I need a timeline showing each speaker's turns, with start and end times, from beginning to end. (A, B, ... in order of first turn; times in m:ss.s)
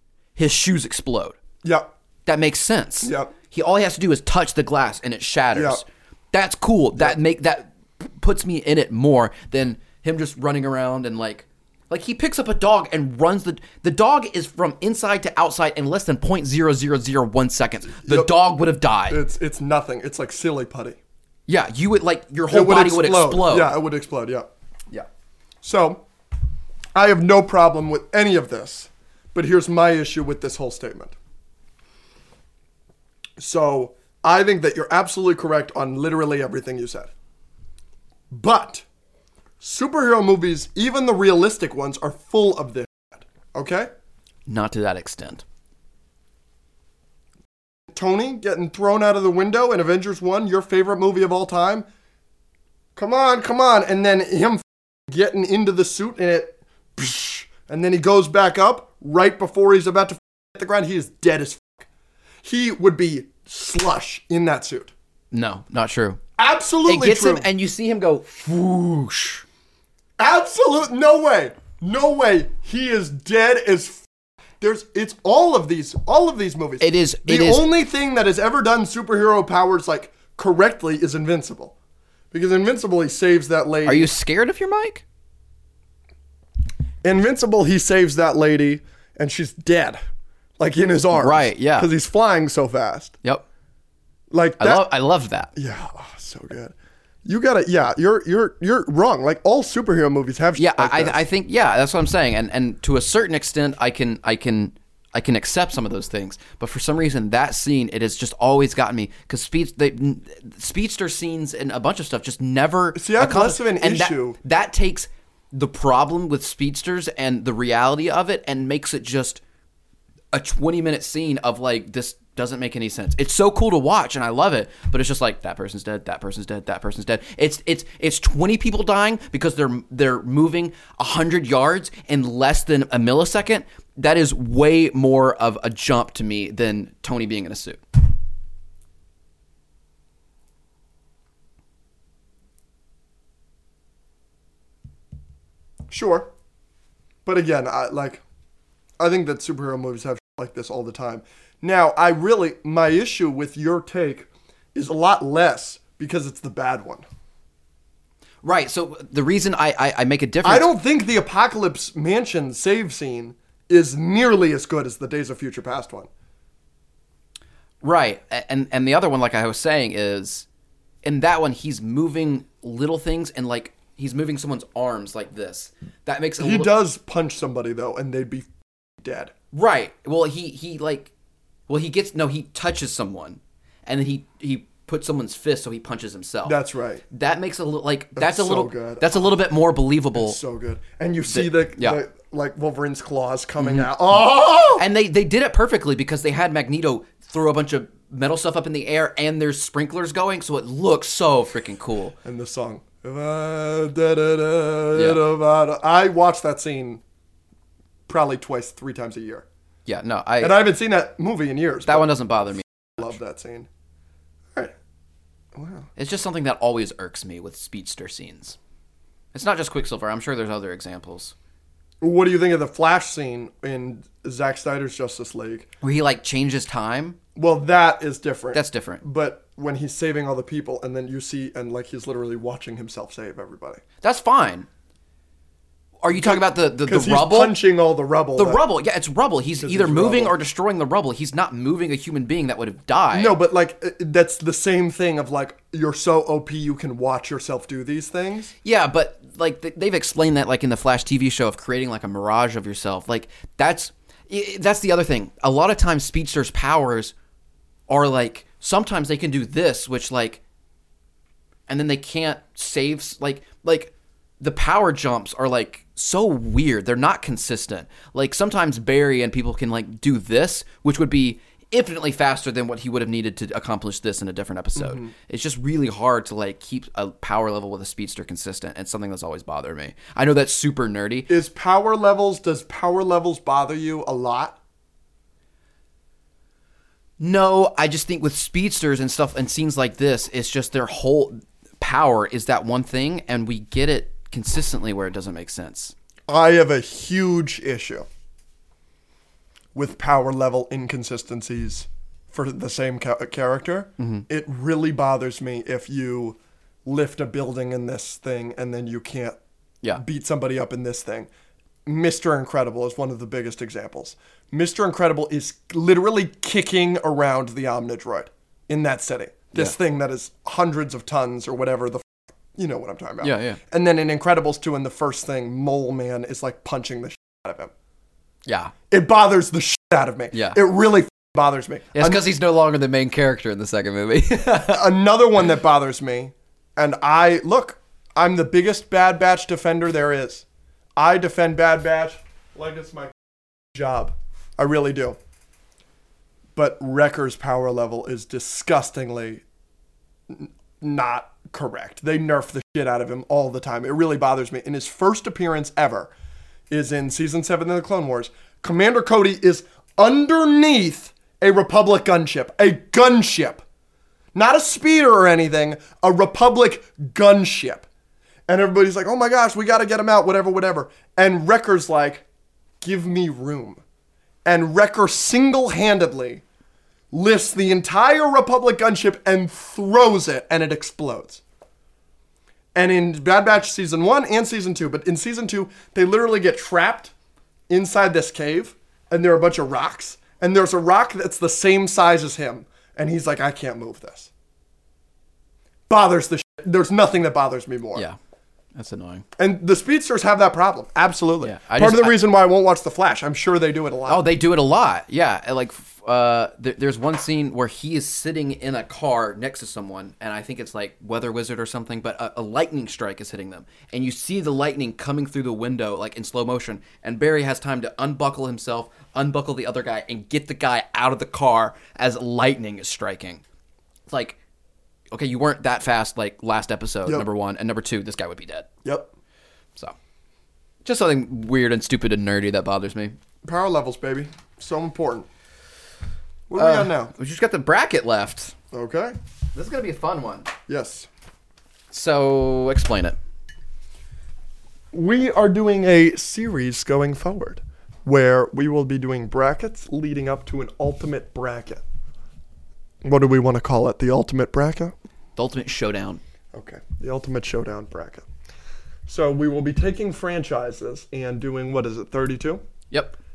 0:00.4-0:01.4 A
0:01.6-0:01.9 B
0:02.3-0:19.2 A
0:03.0-0:03.3 B
0:05.5-0:05.8 B
0:18.0-0:18.4 B
0:19.1-0:21.0 B
0:21.5-0:23.7 A
0:22.5-0:24.5 B
0:25.6-0:26.0 B
0:27.0-0:31.2 B
0:33.4-0:37.1 B
0:38.3-0:38.8 B
0:39.6-0:43.9 B
0:44.5-0:45.4 A
0:47.9-0:51.9 B
0:53.0-1:01.9 B
1:02.4-1:04.9 B
1:05.3-1:06.2 A
1:06.4-1:07.5 B
1:06.9-1:09.4 A
1:10.2-1:14.0 B
1:14.6-1:21.7 B
1:16.8-1:17.7 A
1:22.3-1:24.1 B
1:23.8-1:25.0 A
1:27.0-1:30.0 B
1:30.6-1:33.2 B
1:31.1-1:31.9 A
1:34.3-1:34.9 B
1:34.6-1:35.5 A
1:35.6-1:36.7 B
1:37.2-1:41.2 B
1:40.6-1:59.4 A
1:52.9-1:54.4 B
2:00.3-2:17.8 A
2:25.9-2:26.3 B
2:27.2-2:28.2 B
2:29.0-2:37.0 B
2:38.4-2:40.7 A
2:40.4-2:46.1 B
2:47.8-2:50.4 A
2:51.0-2:56.7 A
2:56.4-2:59.3 B
2:59.5-3:01.1 A
3:01.7-3:06.6 A
3:06.4-3:07.0 B
3:07.1-3:10.4 A
3:08.2-3:09.4 B
3:10.1-3:14.8 B
3:11.3-3:12.0 A
3:13.6-3:13.9 A
3:14.7-3:22.2 A
3:22.2-3:27.0 B
3:24.9-3:25.2 A
3:28.1-3:29.4 B
3:29.9-3:30.6 A
3:30.4-3:32.1 B
3:31.9-3:33.2 A
3:33.0-3:33.7 B
3:35.5-3:35.9 B
3:36.0-3:38.6 A
3:39.3-3:41.3 A
3:42.0-3:45.7 B
3:45.8-3:47.2 A
3:47.4-3:53.8 B
3:48.5-3:49.0 A
3:54.0-3:54.7 A
3:56.0-3:57.6 A
3:56.1-3:58.6 B
3:58.4-4:03.4 A
3:59.6-4:00.4 B
4:03.1-4:08.5 B
4:08.6-4:17.1 A
4:17.9-4:20.4 A
4:21.7-4:41.3 A
4:34.8-4:35.1 B
4:41.3-4:44.6 B
4:47.2-4:55.9 A
4:56.3-4:58.1 B
4:59.7-5:09.4 B
5:04.0-5:04.3 A
5:10.0-5:11.3 B
5:11.9-5:27.7 B
5:23.2-5:23.6 A
5:28.4-5:28.7 A
5:28.9-5:32.3 B
5:30.3-5:30.6 A
5:31.9-5:34.9 A
5:34.6-5:40.4 B
5:41.0-5:45.2 B
5:46.6-5:49.4 B
5:50.3-5:56.1 B
5:56.7-6:03.6 B
6:04.3-6:07.9 B
6:08.5-6:12.2 B
6:12.8-6:13.8 B
6:14.4-6:16.4 B
6:17.1-6:21.4 B
6:22.7-6:27.1 B
6:27.7-6:34.3 B
6:35.9-6:38.0 B
6:38.7-6:39.3 A
6:39.4-6:44.2 B
6:41.4-6:42.2 A
6:44.1-7:03.4 A
7:04.1-7:04.4 A
7:05.1-7:08.7 A
7:08.8-7:09.1 B
7:10.8-7:13.1 A
7:13.4-7:15.3 B
7:16.5-7:17.1 B
7:16.6-7:18.6 A
7:18.7-7:19.2 B
7:19.5-7:20.5 A
7:20.7-7:21.1 B
7:21.9-7:23.2 A
7:24.9-7:31.8 B
7:33.0-7:34.9 B
7:35.4-7:36.2 A
7:36.5-7:38.3 B
7:39.1-7:42.6 B
7:42.9-7:43.2 A